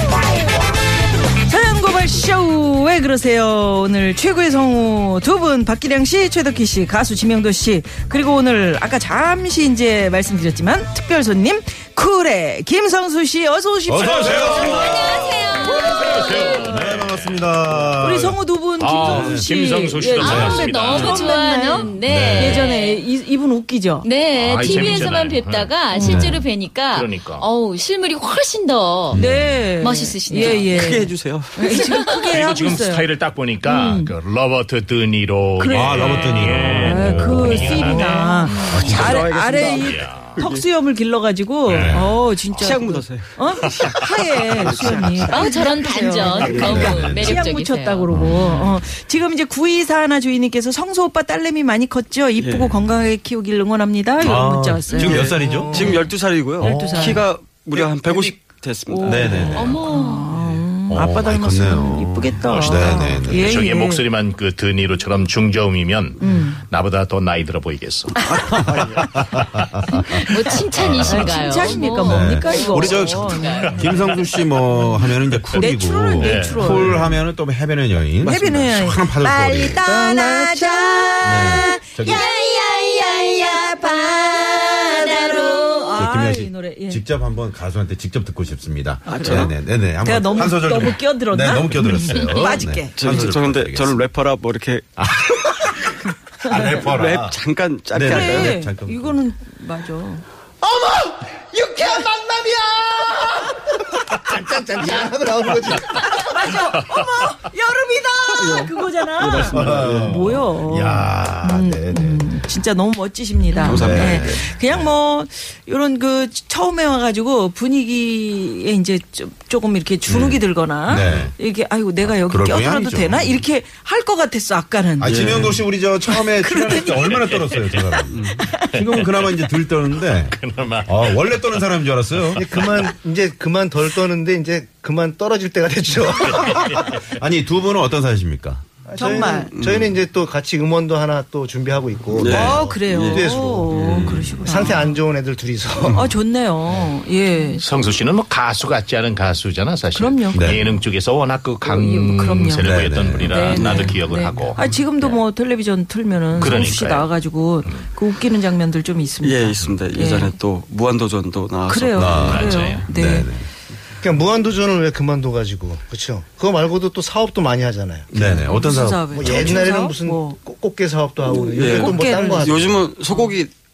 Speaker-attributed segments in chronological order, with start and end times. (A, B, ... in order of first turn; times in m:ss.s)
0:01.4-0:14.8 A
0:13.9-0:15.8 B
0:14.0-0:14.8 C
0:14.3-0:16.8 D
0:15.8-0:17.7 C
0:15.8-0:16.2 A
0:16.4-0:18.4 B
0:18.0-0:24.1 A
0:18.8-0:21.2 C
0:19.0-0:19.5 B
0:20.2-0:23.1 D
0:20.2-0:20.6 B
0:22.0-0:22.7 B
0:24.0-0:29.2 D
0:24.4-0:25.7 C
0:24.6-0:25.1 B
0:26.0-0:26.4 B
0:26.9-0:27.5 C
0:29.1-0:29.7 B
0:29.1-0:33.1 A
0:29.8-0:30.9 D
0:30.6-0:31.8 E
0:31.7-0:32.2 D
0:32.2-0:38.4 C
0:33.6-0:34.1 A
0:35.6-0:56.0 A
0:35.7-0:38.1 B
0:38.6-0:40.6 E
0:38.7-0:39.3 B
0:39.6-0:40.4 C
0:41.7-0:42.7 C
0:41.7-0:42.2 B
0:42.5-0:45.6 E
0:43.6-0:44.2 C
0:45.3-0:48.1 D
0:46.3-0:46.9 E
0:46.7-0:47.4 B
0:48.1-0:48.7 B
0:52.4-0:52.8 E
0:54.2-0:56.0 B
0:54.9-0:59.8 E
0:55.2-0:55.9 F
0:56.6-0:57.3 A
0:56.6-0:58.4 B
0:58.9-1:04.0 A
0:59.0-0:59.8 B
0:59.5-1:00.3 D
1:00.9-1:03.6 B
1:02.5-1:08.2 C
1:06.2-1:06.6 A
1:08.2-1:08.7 A
1:08.4-1:19.9 B
1:08.5-1:09.0 E
1:10.3-1:13.8 D
1:10.5-1:17.2 A
1:13.7-1:14.1 C
1:15.4-1:16.9 C
1:18.2-1:22.2 A
1:18.2-1:18.7 E
1:19.9-1:20.8 E
1:21.2-1:22.2 B
1:22.0-1:26.0 D
1:23.4-1:27.0 A
1:25.9-1:34.0 B
1:29.0-1:33.3 A
1:29.2-1:29.5 E
1:32.9-1:34.9 E
1:35.0-1:37.4 B
1:36.7-1:38.6 E
1:37.9-1:39.2 B
1:38.0-1:40.2 A
1:40.6-1:46.3 F
1:45.9-2:08.7 A
1:48.4-1:50.2 E
1:49.4-1:52.3 B
1:53.6-1:54.9 B
1:53.6-1:54.4 E
2:00.1-2:01.4 B
2:02.0-2:03.4 B
2:05.0-2:12.5 B
2:05.0-2:05.6 E
2:07.0-2:07.5 C
2:08.6-2:12.8 C
2:12.4-2:16.9 F
2:16.2-2:16.9 C
2:17.1-2:18.6 B
2:18.9-2:26.1 F
2:19.0-2:19.5 A
2:19.4-2:20.0 E
2:22.1-2:23.3 E
2:22.2-2:25.0 A
2:23.7-2:24.5 B
2:25.8-2:27.6 A
2:27.6-2:35.2 C
2:29.9-2:30.8 A
2:30.3-2:30.7 B
2:31.6-2:40.4 A
2:32.6-2:34.0 B
2:36.3-2:37.1 C
2:39.2-2:42.5 E
2:41.7-2:43.3 A
2:41.9-2:43.5 B
2:42.2-2:42.9 C
2:44.0-2:48.1 F
2:48.1-2:49.6 B
2:48.1-2:50.4 A
2:49.1-2:52.8 F
2:51.2-2:53.3 A
2:51.5-2:53.5 E